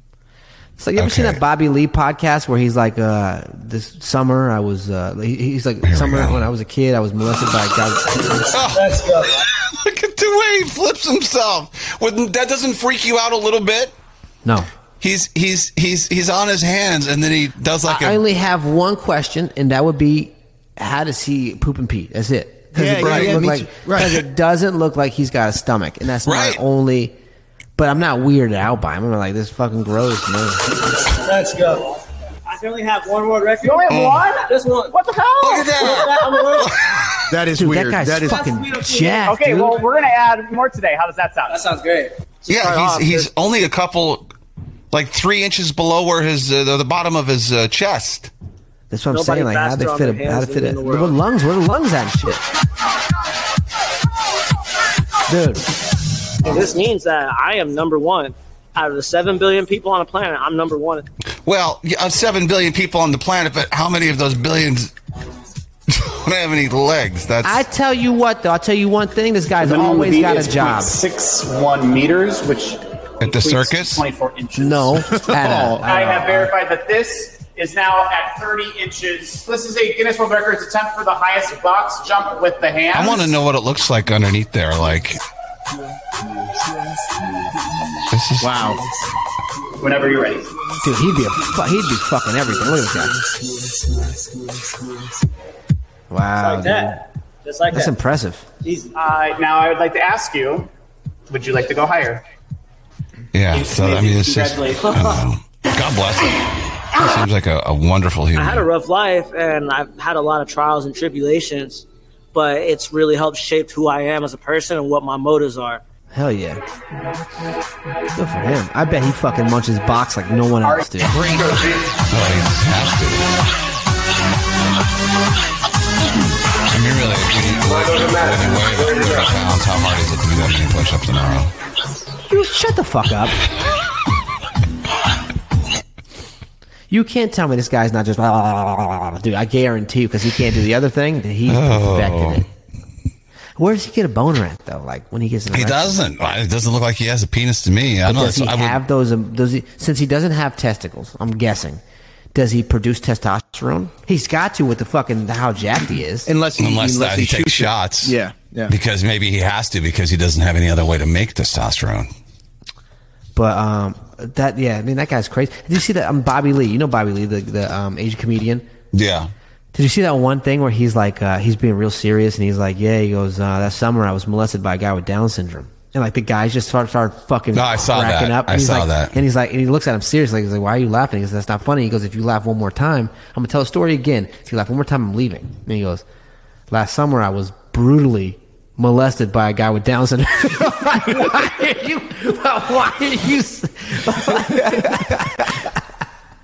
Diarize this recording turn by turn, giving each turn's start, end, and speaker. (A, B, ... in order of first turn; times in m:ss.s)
0:00.8-0:08.3 A
0:01.0-0:01.4 B
0:05.8-0:06.4 B
0:08.5-0:14.0 B
0:08.8-0:09.2 C
0:15.0-0:18.2 B
0:17.8-0:27.1 A
0:22.8-0:24.2 D
0:23.0-0:23.4 B
0:26.2-0:26.6 B
0:27.8-0:30.6 A
0:31.1-0:34.9 C
0:33.6-0:36.1 E
0:33.9-0:34.2 B
0:35.4-0:37.2 B
0:35.7-0:36.7 C
0:37.3-0:38.4 D
0:37.6-0:39.8 A
0:38.3-0:39.3 C
0:39.2-0:41.7 E
0:41.5-0:43.3 C
0:42.5-0:44.3 B
0:44.9-0:48.3 B
0:48.9-0:52.4 A
0:49.1-0:51.2 C
0:55.3-0:55.6 A
0:56.4-1:01.0 C
1:01.4-1:04.9 B
1:05.9-1:07.6 B
1:07.4-1:11.0 A
1:09.6-1:15.0 E
1:13.2-1:14.0 B
1:14.6-1:16.5 A
1:15.1-1:15.9 D
1:15.8-1:23.4 E
1:22.9-1:25.2 B
1:28.1-1:28.7 B
1:28.4-1:28.8 D
1:29.8-1:30.5 E
1:30.8-1:33.2 A
1:36.1-1:37.0 A
1:36.4-1:37.9 C
1:37.7-1:38.4 A
1:38.6-1:38.9 C
1:38.9-1:40.7 E
1:41.3-1:42.2 E
1:43.3-1:48.7 B
1:43.5-1:45.2 E
1:48.4-1:55.8 C
1:56.1-1:56.6 A
1:58.2-2:01.3 A
2:02.0-2:03.3 B
2:06.5-2:11.5 B
2:12.3-2:13.4 A
2:16.9-2:22.5 A
2:21.5-2:22.4 B
2:23.6-2:26.0 A
2:25.5-2:28.8 B
2:28.0-2:31.8 A
2:32.3-2:36.3 A
2:36.2-2:38.7 D
2:36.6-2:38.2 B
2:38.7-2:42.1 B
2:43.3-2:48.7 A
2:48.9-2:49.3 B
2:49.7-3:06.0 A
2:57.5-2:59.2 B
3:06.7-3:15.7 A